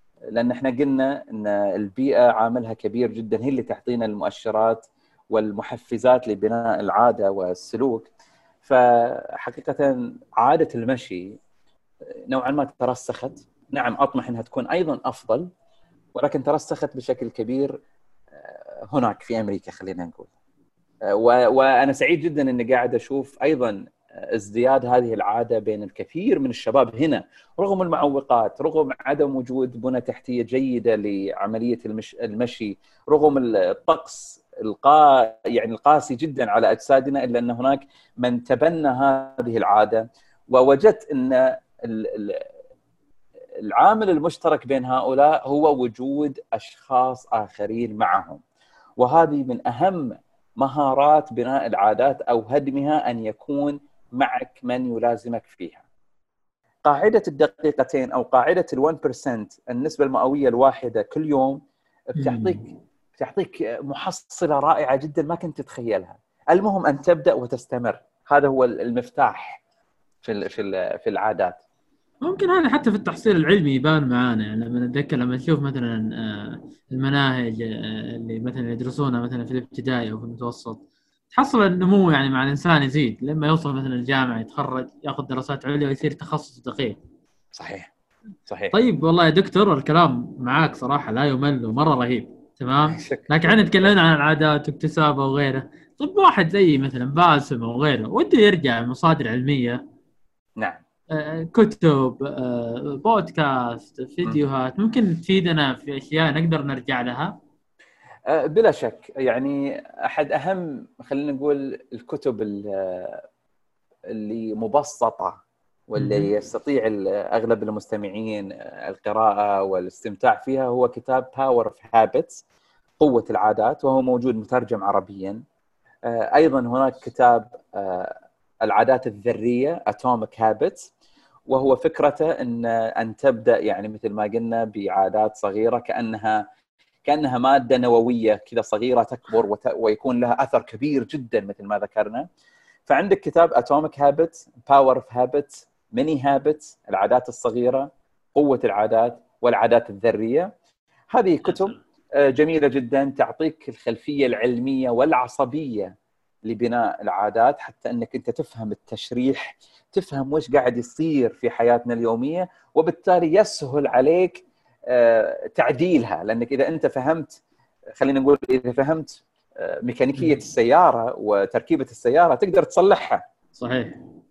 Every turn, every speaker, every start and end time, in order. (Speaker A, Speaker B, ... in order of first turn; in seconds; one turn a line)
Speaker A: 0.3-8.1
Speaker A: 8.6-11.4
Speaker A: 12.3-15.5
Speaker A: 16.1-17.7
Speaker A: 18.3-20.3
Speaker A: 21.1-23.8
Speaker A: 24.3-42.5
Speaker A: 43.6-48.4
Speaker A: 49.0-55.8
Speaker A: 56.9-61.6
Speaker A: 62.1-62.6
Speaker B: 62.2-62.6
Speaker A: 63.2-69.6
Speaker A: 70.2-71.6
Speaker B: 72.2-87.0
Speaker A: 87.5-87.9
Speaker A: 88.5-88.7
Speaker B: 88.7-99.8
Speaker A: 92.9-93.9
Speaker B: 101.1-107.3
Speaker A: 108.3-113.2
Speaker A: 114.1-122.4
Speaker B: 116.0-116.3
Speaker A: 123.0-125.4
Speaker A: 126.1-130.9
Speaker A: 131.5-136.4
Speaker A: 137.1-142.2
Speaker A: 142.9-150.5
Speaker A: 151.1-155.9
Speaker B: 151.4-151.8
Speaker A: 156.5-167.4
Speaker A: 168.0-173.2
Speaker B: 170.2-170.4
Speaker B: 173.6-174.0